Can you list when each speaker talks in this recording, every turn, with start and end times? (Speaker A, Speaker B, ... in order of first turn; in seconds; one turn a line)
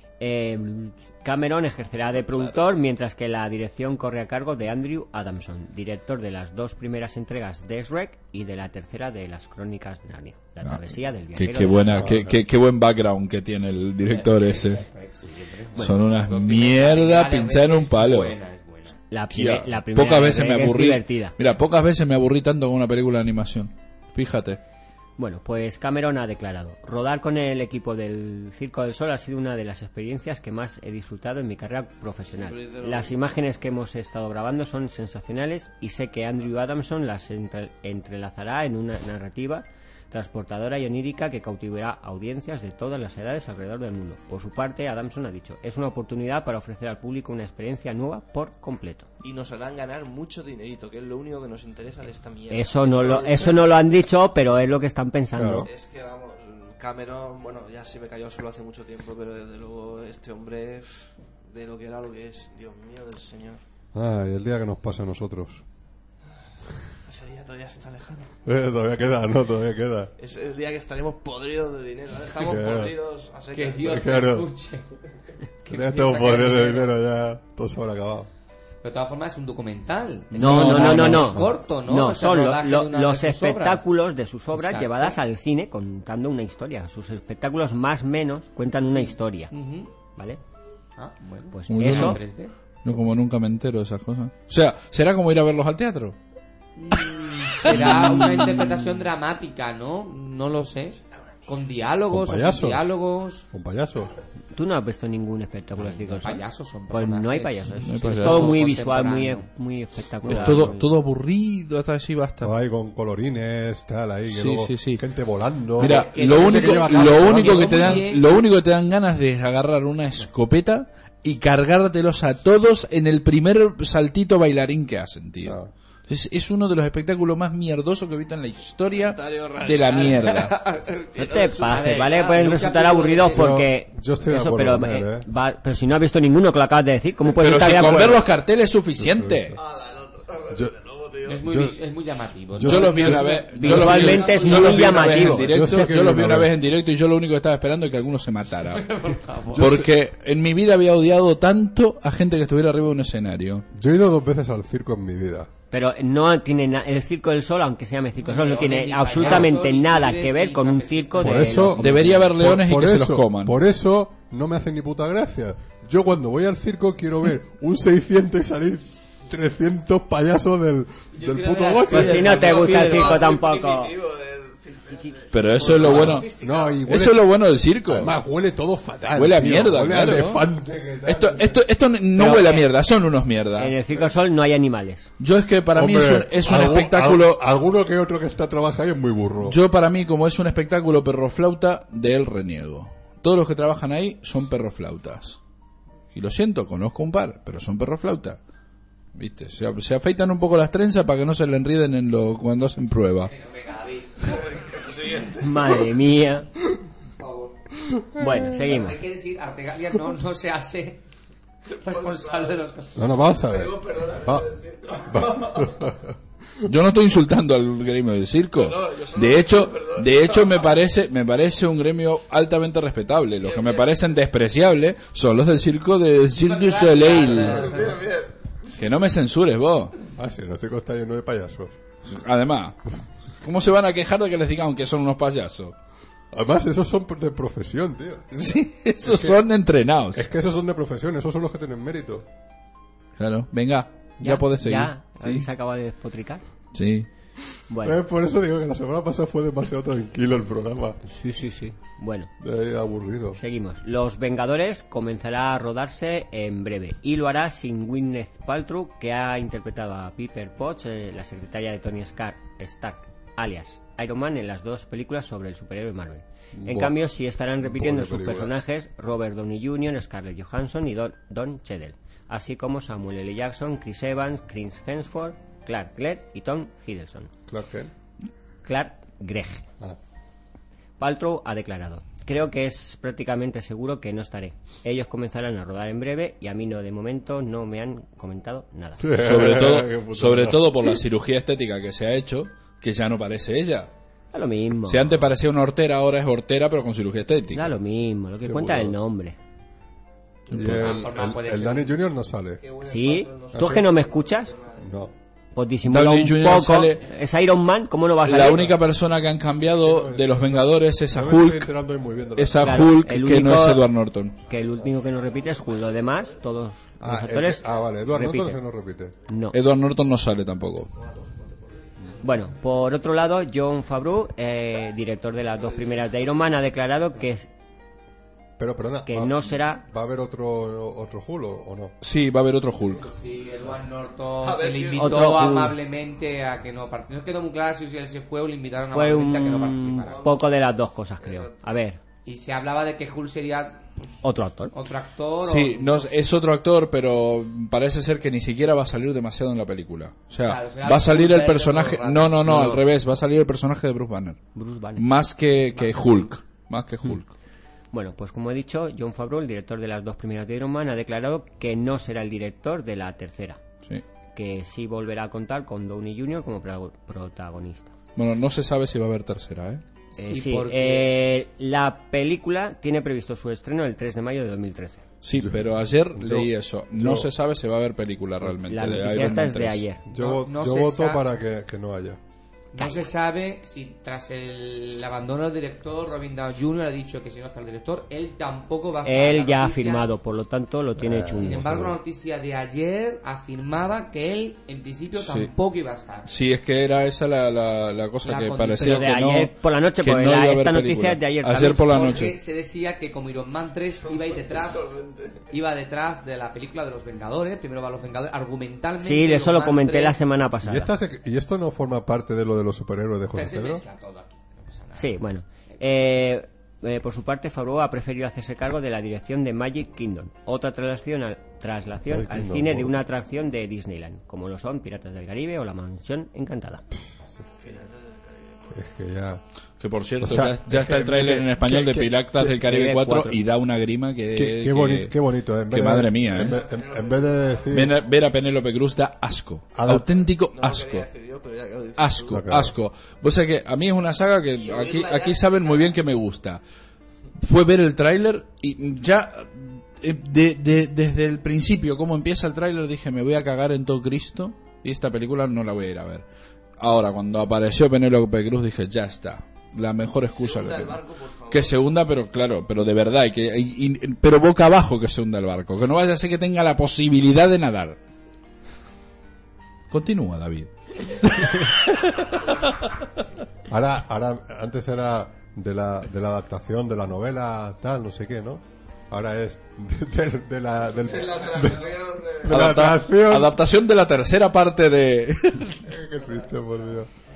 Speaker A: 0.2-12.2
Speaker B: 2.2-2.6
Speaker C: 10.6-14.8
Speaker D: 12.0-12.3
Speaker E: 14.1-19.0
Speaker C: 15.8-18.3
Speaker A: 19.1-21.3
Speaker C: 19.3-24.6
Speaker A: 25.2-49.0
Speaker B: 32.3-33.2
Speaker B: 49.2-53.9
Speaker A: 52.5-55.7
Speaker D: 55.3-55.7
Speaker B: 55.6-63.6
Speaker D: 63.9-65.6
Speaker B: 67.0-68.3
Speaker D: 68.4-70.1
Speaker B: 70.2-74.1
Speaker D: 72.4-73.0
Speaker E: 73.5-74.9
Speaker D: 73.8-74.5
Speaker E: 75.6-76.9
Speaker D: 75.7-78.3
Speaker E: 78.8-83.8
Speaker A: 80.3-89.5
Speaker C: 80.4-81.1
Speaker E: 84.5-85.1
Speaker E: 88.9-89.9
Speaker E: 91.0-92.5
Speaker A: 91.5-92.2
Speaker C: 91.7-92.2
Speaker C: 92.8-96.2
Speaker E: 96.8-103.5
Speaker C: 97.6-98.6
Speaker D: 102.1-102.9
Speaker D: 103.5-104.1
Speaker A: 104.5-110.9
Speaker E: 105.7-109.5
Speaker C: 107.8-108.6
Speaker C: 110.2-112.5
Speaker D: 110.3-110.7
Speaker D: 112.4-118.1
Speaker C: 114.3-115.0
Speaker C: 115.8-130.6
Speaker E: 115.8-118.3
Speaker D: 125.4-125.7
Speaker B: 128.9-132.5
Speaker A: 131.2-138.2
Speaker E: 131.6-133.5
Speaker D: 133.3-135.3
Speaker C: 137.3-139.6
Speaker D: 139.0-139.6
Speaker B: 139.6-141.4
Speaker E: 141.2-145.3
Speaker D: 141.4-141.8
Speaker D: 142.5-143.9
Speaker C: 142.6-148.9
Speaker A: 143.1-145.6
Speaker D: 145.4-146.5
Speaker E: 148.7-149.6
Speaker D: 149.5-149.9
Speaker C: 149.5-153.7
Speaker D: 153.7-155.5
Speaker A: 155.7-162.3
Speaker E: 158.2-161.7
Speaker D: 161.2-172.5
Speaker C: 161.8-163.6
Speaker E: 171.1-173.3
Speaker A: 171.9-173.9
Speaker B: 171.9-176.8
Speaker C: 175.3-176.3
Speaker D: 175.8-177.3
Speaker C: 176.8-178.1
Speaker D: 177.8-181.6
Speaker C: 179.1-180.5
Speaker C: 181.0-183.7
Speaker A: 182.1-182.7
Speaker A: 183.6-185.1
Speaker C: 185.2-187.4
Speaker D: 185.7-189.6
Speaker C: 189.4-195.4
Speaker C: 196.1-198.4
Speaker C: 199.1-203.3
Speaker E: 203.3-204.5
Speaker B: 204.2-205.7
Speaker A: 205.3-206.5
Speaker E: 207.2-207.5
Speaker D: 207.9-208.3
Speaker A: 208.2-209.0
Speaker E: 208.6-211.0
Speaker E: 211.7-213.2
Speaker B: 211.8-212.6
Speaker D: 212.9-214.5
Speaker B: 213.3-215.9
Speaker D: 215.1-216.1
Speaker C: 216.6-227.8
Speaker B: 218.5-220.7
Speaker B: 223.4-223.9
Speaker E: 226.3-228.0
Speaker B: 227.0-228.7
Speaker C: 228.8-229.9
Speaker D: 230.2-231.7
Speaker C: 232.1-235.8
Speaker D: 236.3-238.4
Speaker C: 238.3-240.2
Speaker D: 239.0-239.4
Speaker D: 240.1-242.3
Speaker C: 243.2-245.5
Speaker A: 244.2-246.4
Speaker C: 246.7-247.1
Speaker A: 247.7-248.0
Speaker D: 247.8-251.0
Speaker A: 251.0-252.3
Speaker D: 252.4-253.4
Speaker A: 253.3-277.3
Speaker D: 266.5-267.0
Speaker D: 267.6-268.5
Speaker D: 277.5-277.9
Speaker A: 278.6-279.7
Speaker A: 281.0-289.2
Speaker D: 289.0-291.0
Speaker C: 289.2-293.9
Speaker A: 294.3-295.2
Speaker C: 294.9-297.7
Speaker A: 297.5-299.4
Speaker D: 298.4-299.0
Speaker B: 300.5-301.3
Speaker D: 300.5-302.6
Speaker E: 300.6-301.9
Speaker B: 302.6-304.9
Speaker A: 302.8-304.5
Speaker D: 303.5-303.8
Speaker D: 304.8-305.1
Speaker A: 305.5-308.7
Speaker C: 305.9-307.0
Speaker C: 308.2-311.7
Speaker D: 309.8-312.9
Speaker C: 312.4-314.4
Speaker A: 312.6-313.9
Speaker A: 314.4-318.6
Speaker B: 314.9-316.4
Speaker D: 317.0-319.1
Speaker A: 319.3-319.6
Speaker C: 319.5-320.9
Speaker B: 320.9-322.1
Speaker A: 322.2-327.5
Speaker B: 325.6-326.1
Speaker D: 328.6-331.9
Speaker A: 329.1-329.8
Speaker C: 332.0-333.1
Speaker E: 333.0-340.2
Speaker B: 334.4-335.5
Speaker A: 334.9-335.8
Speaker A: 338.9-342.0
Speaker B: 340.1-341.6
Speaker E: 342.2-346.1
Speaker A: 344.2-344.7
Speaker C: 345.4-357.3
Speaker E: 350.4-352.3
Speaker A: 352.4-352.8
Speaker A: 354.5-355.1
Speaker E: 355.7-356.3
Speaker A: 357.9-363.6
Speaker A: 364.3-367.9
Speaker C: 368.1-369.8
Speaker E: 370.1-371.1
Speaker A: 370.2-375.0
Speaker C: 375.2-379.8
Speaker D: 376.1-377.3
Speaker A: 378.5-380.0
Speaker D: 380.1-382.2
Speaker E: 380.1-381.2
Speaker E: 382.7-390.1
Speaker A: 389.0-391.8
Speaker D: 391.0-391.9
Speaker E: 391.3-396.3
Speaker C: 395.1-395.5
Speaker C: 396.2-402.3
Speaker E: 398.2-399.1
Speaker A: 398.8-401.9
Speaker E: 401.7-404.9
Speaker B: 404.0-405.4
Speaker E: 405.5-410.2
Speaker A: 409.0-410.9
Speaker D: 410.6-413.8
Speaker E: 413.3-415.2
Speaker A: 414.9-426.8
Speaker D: 422.1-422.9
Speaker D: 427.1-427.4
Speaker B: 427.6-428.8
Speaker D: 428.7-429.4
Speaker C: 429.8-435.1
Speaker D: 430.2-432.4
Speaker A: 432.6-433.4
Speaker D: 434.3-437.9
Speaker C: 435.7-436.6
Speaker B: 436.3-438.0
Speaker C: 437.7-441.1
Speaker D: 439.7-440.1
Speaker B: 440.5-442.5
Speaker C: 442.0-446.6
Speaker D: 442.3-442.7
Speaker B: 444.5-446.0
Speaker C: 447.4-456.2
Speaker C: 456.8-468.0
Speaker B: 460.3-461.8
Speaker C: 469.9-472.4
Speaker D: 473.7-483.6
Speaker B: 481.0-482.5
Speaker C: 482.5-485.8
Speaker D: 485.8-487.1